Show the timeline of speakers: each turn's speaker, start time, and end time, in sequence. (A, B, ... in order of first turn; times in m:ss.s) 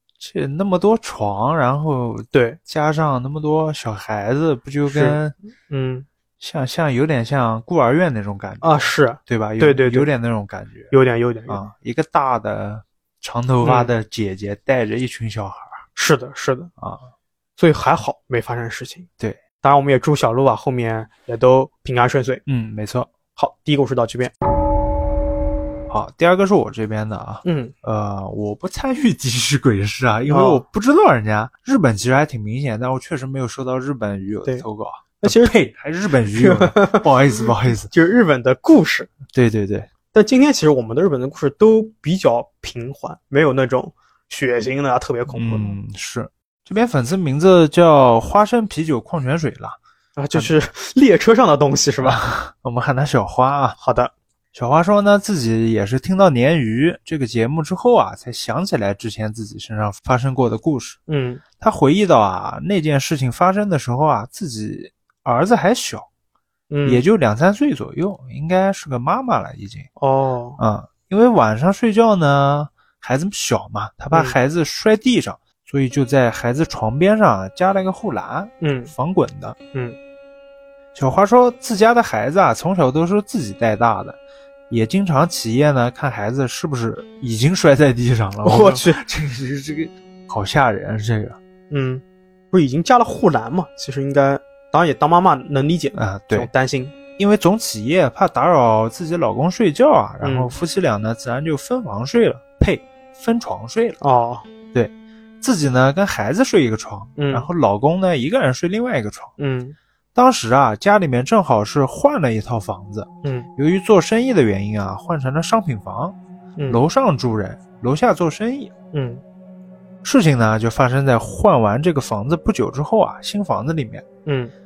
0:00.2-0:05.3 A
0:02.3-0:02.6 B
0:04.9-0:06.0 B
0:06.4-0:10.9 A
0:08.6-0:10.1 B
0:10.9-0:11.6 B
0:11.5-0:15.8 A
0:13.6-0:13.9 B
0:16.0-0:16.7 B
0:16.8-0:17.0 A
0:17.6-0:19.1 B
0:19.6-0:22.4 B
0:22.4-0:23.1 A
0:23.4-0:24.3 B
0:25.9-0:37.9 A
0:27.4-0:27.7 B
0:30.3-0:30.6 B
0:35.2-0:35.6 B
0:36.3-0:39.1 B
0:39.3-0:39.9 A
0:40.1-0:45.8 B
0:45.3-0:49.8 A
0:50.2-0:52.2 B
0:52.0-0:53.8 A
0:53.8-0:54.1 B
0:54.5-1:01.0 A
1:01.1-1:01.4 B
1:01.6-1:06.1 A
1:06.7-1:07.0 B
1:06.8-1:09.9 A
1:10.0-1:10.6 B
1:10.6-1:19.6 A
1:14.1-1:14.4 B
1:18.6-1:18.9 B
1:20.9-1:24.2 A
1:24.7-1:31.4 A
1:28.4-1:29.0 B
1:31.7-1:36.9 B
1:35.9-1:36.5 A
1:37.2-1:44.0 A
1:40.2-1:40.5 B
1:44.0-1:44.5 B
1:44.7-1:49.3 A
1:47.2-1:47.5 B
1:49.4-1:49.8 B
1:50.1-1:56.2 A
1:53.2-1:53.5 B
1:56.7-1:58.7 A
1:58.9-1:59.2 B
2:00.0-2:04.0 A
2:04.2-2:04.5 B